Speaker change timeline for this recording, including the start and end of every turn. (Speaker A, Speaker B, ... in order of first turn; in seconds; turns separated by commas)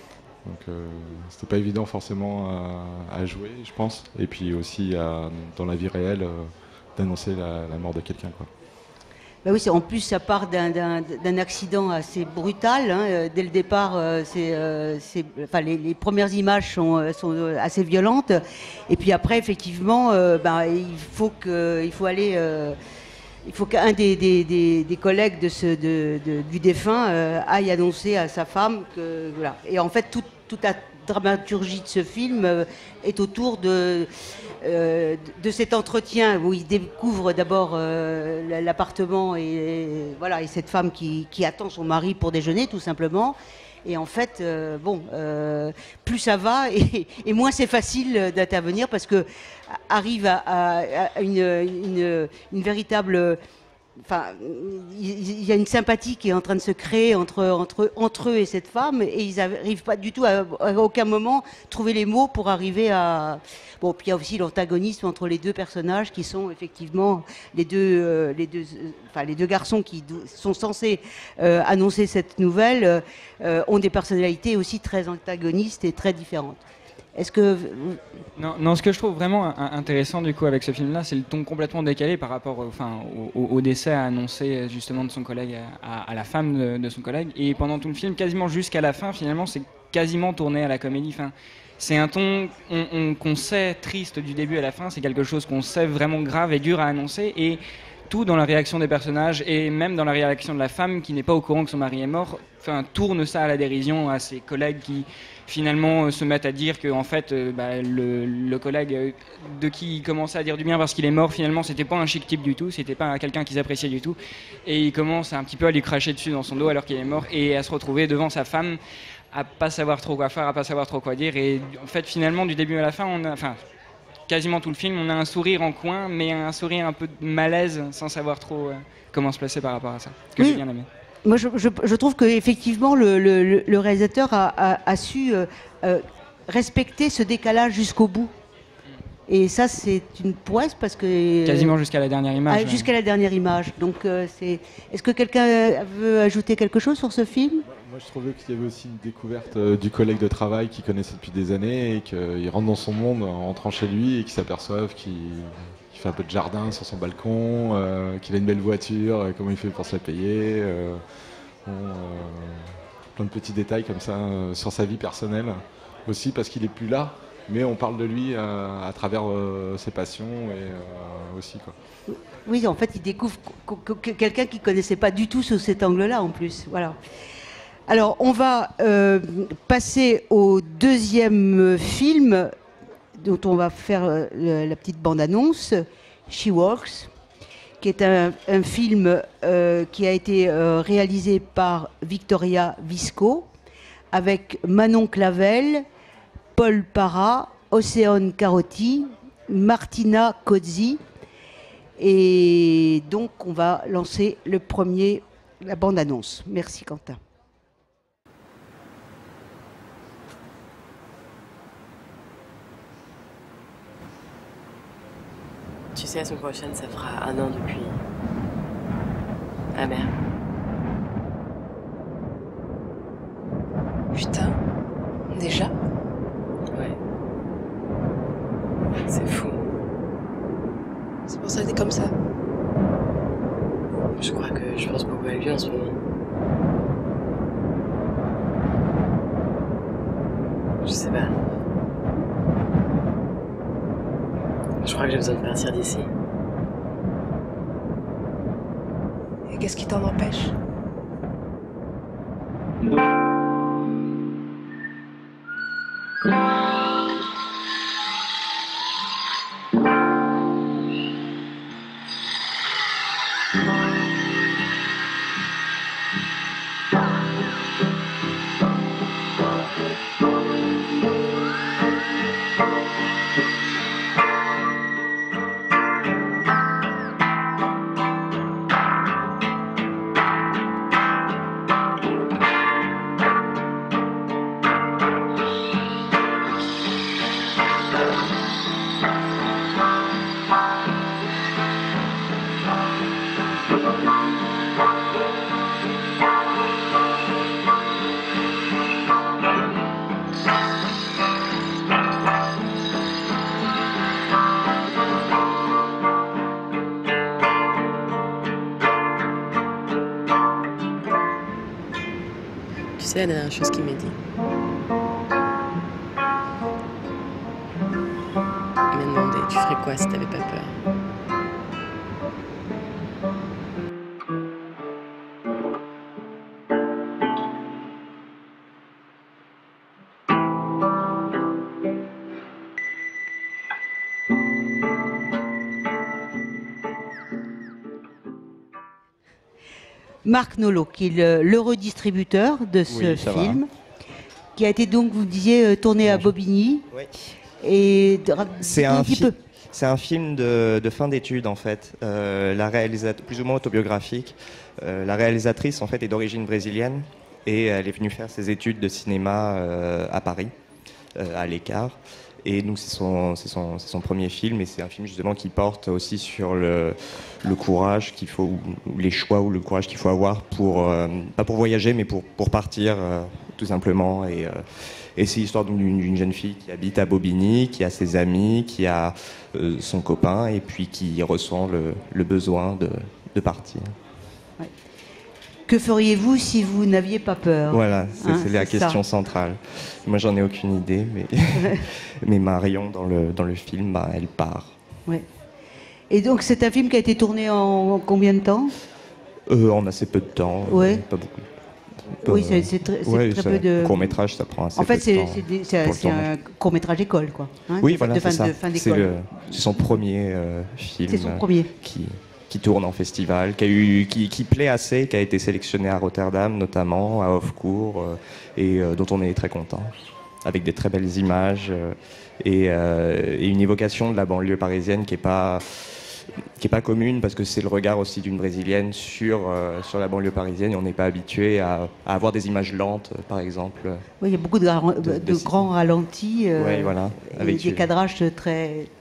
Speaker A: 0.5-8.5, Speaker B: 9.4-22.8, Speaker B: 23.4-34.1, Speaker B: 34.6-53.4, Speaker B: 54.0-76.6, Speaker B: 77.2-78.0, Speaker C: 78.4-118.8, Speaker C: 119.3-123.6, Speaker C: 124.3-130.9, Speaker B: 131.2-138.3, Speaker B: 139.3-141.8, Speaker C: 141.4-142.9, Speaker B: 142.5-147.7, Speaker A: 147.7-161.0, Speaker A: 161.7-171.8, Speaker B: 172.1-177.0, Speaker B: 177.9-182.5, Speaker B: 183.2-187.1, Speaker B: 187.8-193.5, Speaker B: 194.1-195.9, Speaker B: 196.6-201.0, Speaker B: 202.0-207.2, Speaker D: 215.9-218.0, Speaker D: 219.8-220.1, Speaker E: 224.1-224.6, Speaker E: 225.3-225.7, Speaker D: 229.0-229.7, Speaker E: 231.3-232.1, Speaker D: 234.1-235.9, Speaker D: 240.8-241.4, Speaker D: 244.8-246.1, Speaker E: 249.5-250.5, Speaker D: 313.0-314.2, Speaker D: 318.9-320.8, Speaker B: 340.2-343.7, Speaker F: 342.9-343.6, Speaker B: 344.6-346.9, Speaker F: 346.0-346.3, Speaker B: 347.6-349.4, Speaker F: 348.6-360.5, Speaker F: 361.2-384.0, Speaker B: 385.7-389.0, Speaker F: 387.7-394.8, Speaker B: 396.1-398.7, Speaker F: 399.5-401.5, Speaker B: 400.7-401.0, Speaker F: 402.1-406.3, Speaker B: 402.2-404.2, Speaker B: 404.8-409.8, Speaker F: 407.8-419.9, Speaker B: 411.1-411.7, Speaker F: 420.4-434.1, Speaker B: 434.2-438.9, Speaker F: 435.0-435.6, Speaker F: 436.6-437.9